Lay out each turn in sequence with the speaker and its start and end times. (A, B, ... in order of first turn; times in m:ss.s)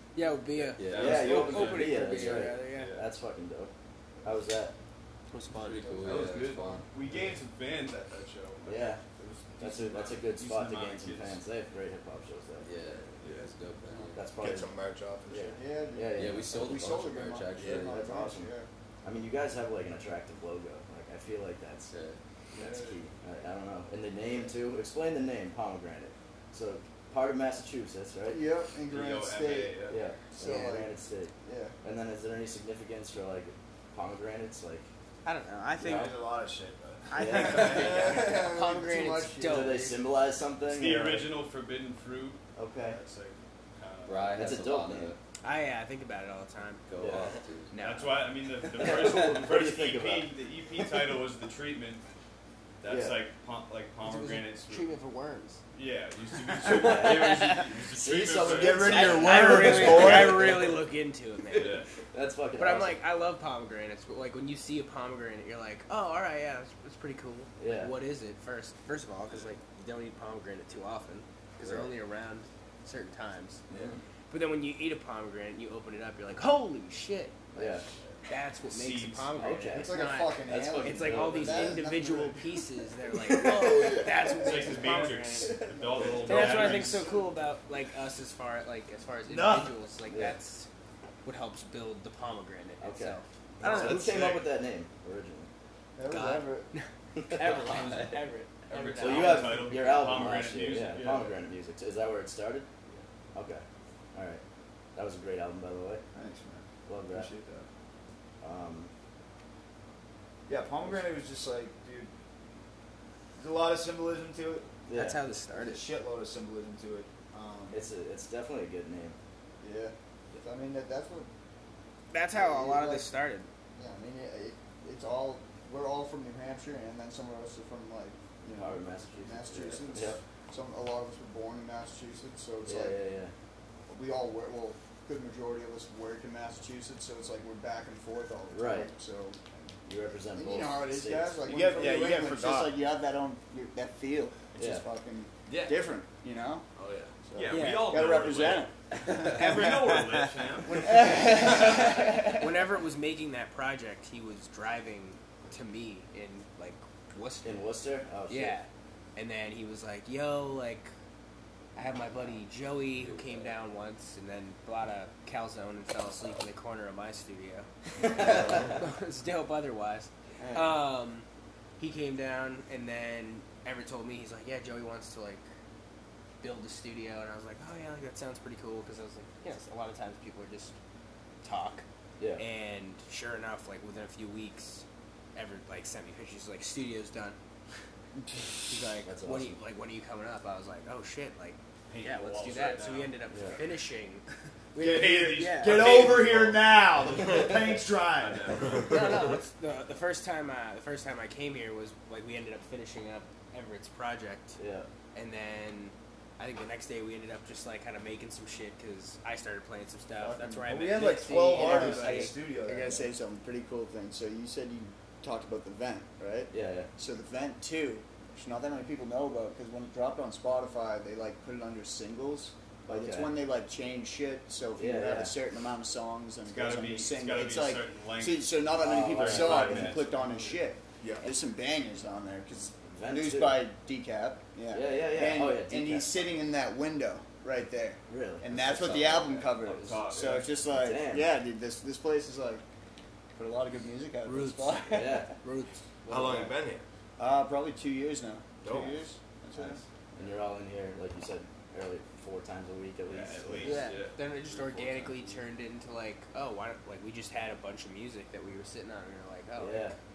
0:00.1-0:02.9 A
0:00.5-0:02.0 B
0:00.8-0:01.4 C
0:00.9-0:03.7 D
0:02.6-0:03.1 B
0:04.2-0:04.7 D
0:05.3-0:06.0 A
0:05.5-0:06.8 C
0:06.0-0:11.4 B
0:08.6-0:09.0 D
0:09.6-0:12.6 D
0:12.6-0:14.2 C
0:13.2-0:13.5 B
0:14.2-0:14.7 D
0:14.4-0:15.6 E
0:15.3-0:16.5 D
0:15.5-0:18.7 F
0:16.1-0:17.9 C
0:17.5-0:18.0 E
0:17.8-0:18.5 D
0:19.0-0:21.9 D
0:21.9-0:22.2 C
0:22.5-0:23.0 F
0:22.5-0:28.4 D
0:28.2-0:30.9 F
0:28.8-0:30.0 B
0:29.9-0:34.9 D
0:30.4-0:30.8 A
0:31.4-0:31.7 F
0:35.2-0:36.2 A
0:35.8-0:38.3 G
0:35.8-0:36.1 D
0:37.1-0:39.9 A
0:37.2-0:37.9 D
0:37.7-0:40.0 F
0:37.7-0:38.0 B
0:39.4-0:41.2 D
0:40.6-0:44.6 B
0:42.6-0:43.0 D
0:44.0-0:45.2 C
0:44.4-0:45.1 D
0:45.4-0:46.8 A
0:46.9-0:47.7 C
0:47.0-0:47.3 D
0:47.7-0:48.3 A
0:47.8-0:52.0 B
0:48.7-0:51.1 D
0:52.8-0:54.9 B
0:52.8-0:53.2 D
0:54.0-0:55.6 A
0:55.7-1:00.3 B
0:56.6-1:00.6 D
0:56.7-0:57.6 A
0:58.5-1:00.6 G
0:58.8-1:01.8 A
1:01.5-1:01.9 B
1:02.1-1:03.0 D
1:02.6-1:13.6 A
1:07.6-1:07.9 D
1:11.6-1:11.9 D
1:13.7-1:14.0 D
1:14.3-1:17.4 A
1:17.5-1:17.8 D
1:18.3-1:25.6 A
1:18.7-1:19.4 B
1:19.4-1:21.8 D
1:19.7-1:22.6 F
1:23.2-1:24.0 D
1:23.6-1:24.8 F
1:24.4-1:27.2 B
1:25.6-1:26.0 F
1:26.1-1:30.7 A
1:29.3-1:29.7 G
1:30.1-1:30.4 D
1:31.2-1:34.1 A
1:32.8-1:35.5 D
1:33.6-1:34.5 B
1:36.0-1:36.7 F
1:36.1-1:39.8 A
1:37.5-1:38.1 C
1:37.7-1:38.1 B
1:38.7-1:41.4 B
1:39.0-1:42.7 D
1:43.3-1:44.4 D
1:44.9-1:46.0 D
1:46.1-1:47.7 G
1:46.9-1:47.3 D
1:48.4-1:48.9 D
1:50.5-1:52.1 G
1:53.4-1:54.7 G
1:54.9-1:55.2 D
1:54.9-1:55.9 A
1:55.5-1:57.8 G
1:57.7-1:59.2 D
1:59.6-2:01.3 F
2:02.1-2:03.5 A
2:02.3-2:03.1 F
2:03.7-2:13.0 F
2:08.5-2:10.2 D
2:12.6-2:13.3 D
2:13.9-2:19.7 F
2:18.5-2:18.9 D
2:19.8-2:21.5 D
2:20.3-2:26.7 F
2:21.4-2:22.8 G
2:24.6-2:24.8 D
2:26.8-2:27.2 E
2:27.2-2:30.2 F
2:27.3-2:31.9 B
2:27.5-2:28.0 A
2:30.7-2:32.4 F
2:31.0-2:37.6 A
2:37.4-2:38.6 D
2:38.3-2:40.9 A
2:41.7-2:51.3 A
2:42.9-2:43.5 C
2:48.2-2:48.5 D
2:51.8-2:55.4 A
2:56.4-3:00.7 A
3:01.4-3:01.8 A
3:02.2-3:02.4 D
3:02.4-3:07.4 A
3:08.7-3:14.2 A
3:09.0-3:09.6 D
3:11.9-3:13.2 B
3:13.3-3:13.6 D
3:14.7-3:16.0 A
3:14.7-3:18.6 G
3:14.8-3:17.6 B
3:18.2-3:19.0 B
3:18.9-3:24.6 A
3:24.6-3:24.9 D
3:25.1-3:32.4 A
3:30.2-3:30.6 F
3:30.6-3:33.1 G
3:31.5-4:02.6 F
3:36.5-3:36.9 D
3:42.9-3:43.4 D
3:44.8-3:45.3 D
3:46.4-3:50.4 B
3:48.8-3:50.0 D
3:52.8-3:53.7 D
3:54.7-3:56.2 D
3:58.1-4:00.1 D
3:59.6-4:00.6 B
4:00.6-4:01.4 D
4:03.3-4:05.2 F
4:04.2-4:06.5 A
4:04.9-4:05.3 D
4:06.1-4:06.8 E
4:07.2-4:09.8 F
4:08.6-4:09.0 E
4:10.2-4:13.8 D
4:13.0-4:15.4 B
4:13.6-4:19.9 A
4:19.6-4:20.0 D